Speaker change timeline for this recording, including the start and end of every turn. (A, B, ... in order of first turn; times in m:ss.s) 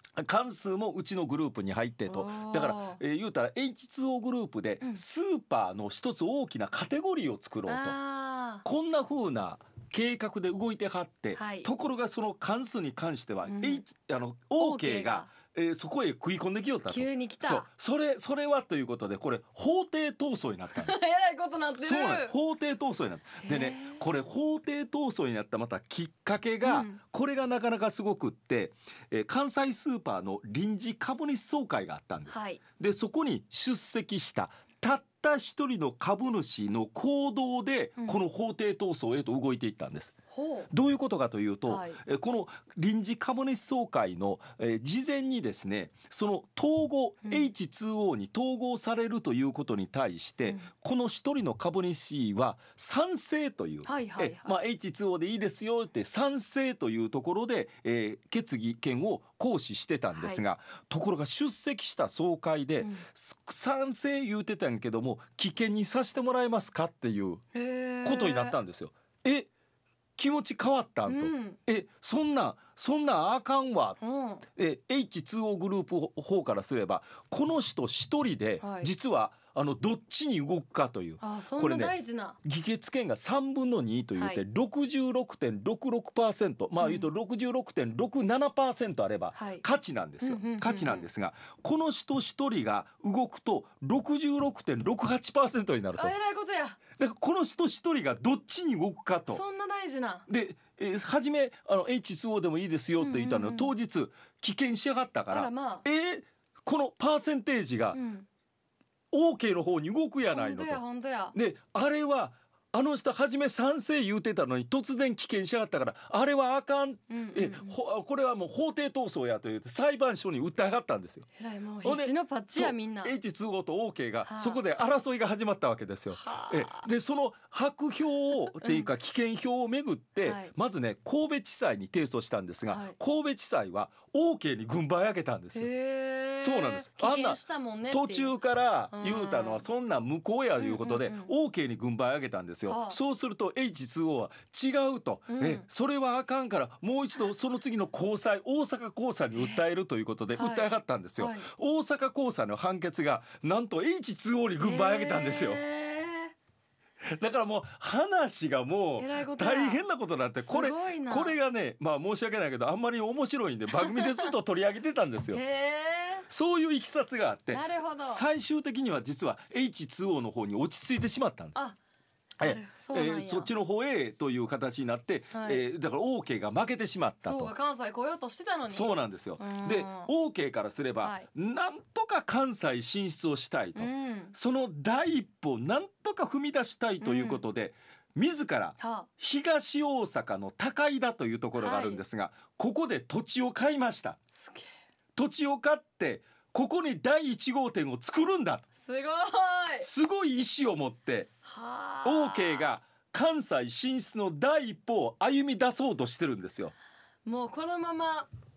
0:00.2-0:08.0 A
0:02.1-0:03.0 B
0:07.6-0:08.6 B
0:08.6-0:21.0 A
0:11.3-0:11.7 B
0:13.4-0:13.8 B
0:14.6-0:15.3 B
0:16.9-0:17.7 B
0:20.8-0:22.3 B
0:21.8-0:40.1 A
0:23.4-0:24.0 B
0:26.6-0:27.0 B
0:32.3-0:32.6 B
0:40.3-0:40.7 B
0:40.7-1:07.4 A
0:41.6-0:42.0 B
0:53.8-0:54.5 B
1:00.1-1:00.4 B
1:07.5-1:08.6 B
1:08.0-1:09.5 A
1:10.2-1:14.0 A
1:11.0-1:11.6 B
1:14.0-1:14.4 B
1:14.6-1:36.2 A
1:18.6-1:18.9 B
1:21.2-1:22.4 B
1:24.1-1:24.4 B
1:26.8-1:27.1 B
1:29.3-1:29.6 B
1:30.2-1:31.1 B
1:36.0-1:36.8 B
1:37.0-1:39.4 A
1:39.3-1:40.3 B
1:40.3-1:48.0 A
1:43.0-1:43.7 B
1:45.3-1:45.8 B
1:47.9-1:48.2 B
1:49.1-1:50.8 A
1:50.3-1:51.3 B
1:51.3-2:01.3 A
1:57.1-1:57.8 B
2:01.4-2:03.1 B
2:01.8-2:15.7 A
2:04.2-2:04.6 B
2:06.1-2:06.9 B
2:08.6-2:08.9 B
2:10.2-2:10.5 B
2:12.7-2:12.9 B
2:15.5-2:18.4 B
2:16.4-2:35.6 A
2:18.9-2:19.6 B
2:20.6-2:21.3 B
2:22.6-2:23.0 B
2:25.3-2:25.6 B
2:29.3-2:29.6 B
2:30.4-2:31.5 B
2:34.6-2:36.3 B
2:37.1-2:45.4 A
2:39.0-2:39.8 B
2:40.4-2:41.4 B
2:43.8-2:44.3 B
2:45.3-2:46.3 B
2:46.3-2:51.6 A
2:47.5-2:48.2 B
2:52.4-2:53.5 B
2:52.4-2:57.5 A
2:55.3-2:55.6 B
2:57.2-3:00.1 B
2:58.7-3:14.2 A
3:01.0-3:01.3 B
3:03.8-3:04.3 B
3:07.0-3:07.4 B
3:08.8-3:09.1 B
3:11.5-3:12.0 B
3:14.3-3:14.7 B
3:15.1-3:18.6 A
3:18.8-3:19.9 B
3:19.8-3:21.3 A
3:21.4-3:22.7 B
3:22.0-3:26.7 A
3:27.2-3:28.3 B